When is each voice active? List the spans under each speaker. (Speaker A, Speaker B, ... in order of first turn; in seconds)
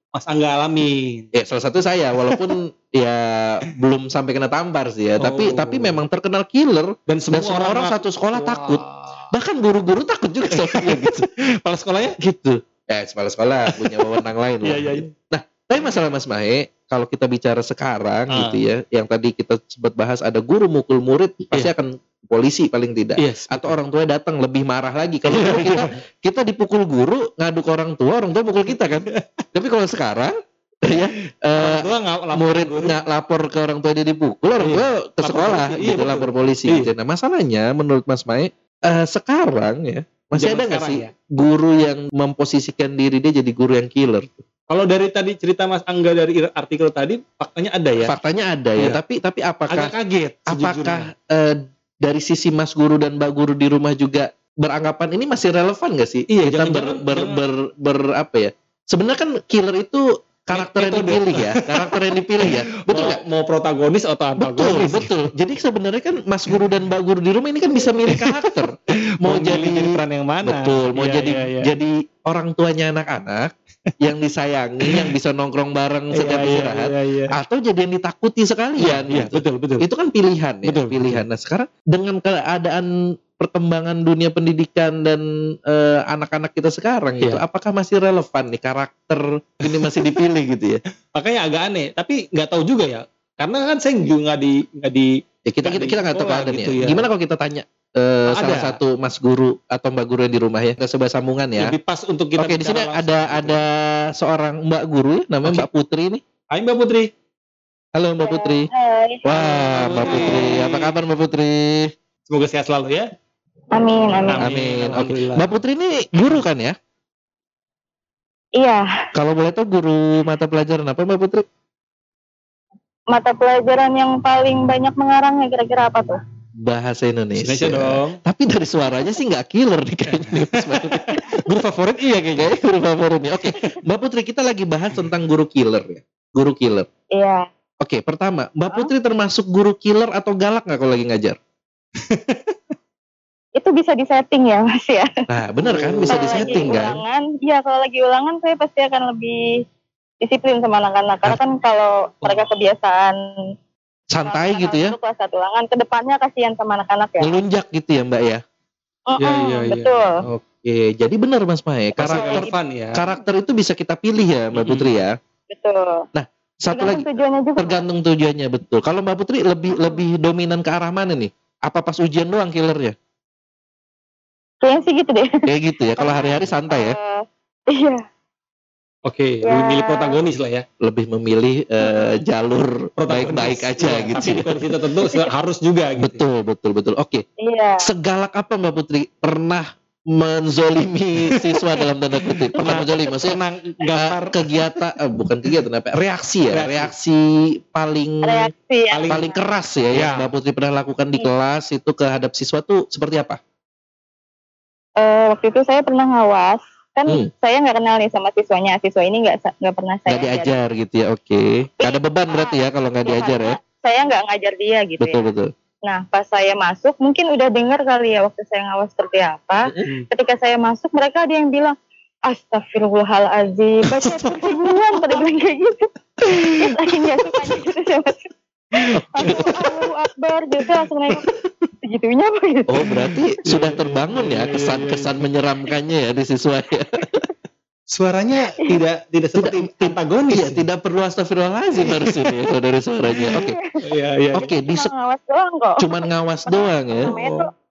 Speaker A: 0.1-1.3, 2.2-2.6, 5.2-6.0, 7.1-9.3, 10.5-12.2, 13.7-15.1, 18.3-18.6, 23.2-23.7, 25.2-26.0, 28.9-29.4, 30.9-33.0, 34.6-36.9, 40.4-41.1, 44.7-48.1, 49.7-51.1, 56.3-57.4, 60.5-65.1, 68.1-71.7, 74.8-75.1, 76.1-77.4, 78.8-79.8, 80.6-81.2, 89.6-90.2, 91.1-97.0, 98.3-98.8, 101.6-103.6, 106.5-107.1, 109.7-110.9, 112.3-113.1, 114.3-115.5, 127.4-128.2, 130.1-132.5, 133.4-133.7, 142.0-142.6, 145.6-146.9, 159.2-160.1, 162.0-163.0, 164.5-164.9, 179.1-180.6, 183.0-186.2, 191.2-194.8, 196.5-196.9, 198.9-199.3, 199.9-200.3, 223.9-225.2, 228.8-229.4, 232.9-235.2, 237.9-240.6, 241.7-242.4, 243.8-244.5
Speaker B: 1.3-11.3, 12.2-44.4, 48.0-49.9, 50.5-63.2, 64.4-90.8, 95.5-101.8, 102.4-106.2, 107.9-108.7, 109.2-111.9, 114.4-116.8, 119.1-121.5, 126.6-131.4, 132.3-136.9, 137.8-141.4, 145.3-147.0, 154.1-154.9, 157.2-158.4, 160.2-165.2, 166.1-172.9, 175.4-177.0, 180.8-184.7, 186.0-187.2, 187.8-193.4, 193.9-198.5, 199.1-203.4, 210.1-213.6, 215.0-215.5, 228.9-229.6, 232.7-237.2, 239.3-243.6, 244.3-244.9, 245.8-247.4
Speaker C: 108.2-110.5, 113.7-114.5, 118.6-118.9, 123.1-126.2, 137.1-137.5, 143.6-145.1, 146.1-149.5, 150.2-153.2, 154.2-157.3, 159.1-160.2, 162.1-162.5, 165.5-166.1, 166.7-167.8, 169.7-170.0, 174.6-178.0, 179.4-180.2, 181.8-182.1, 187.4-187.9, 198.2-199.4, 205.0-210.5, 211.8-215.2, 215.8-221.7, 222.3-228.3, 229.1-231.3, 231.8-232.9, 243.2-243.8, 244.6-247.5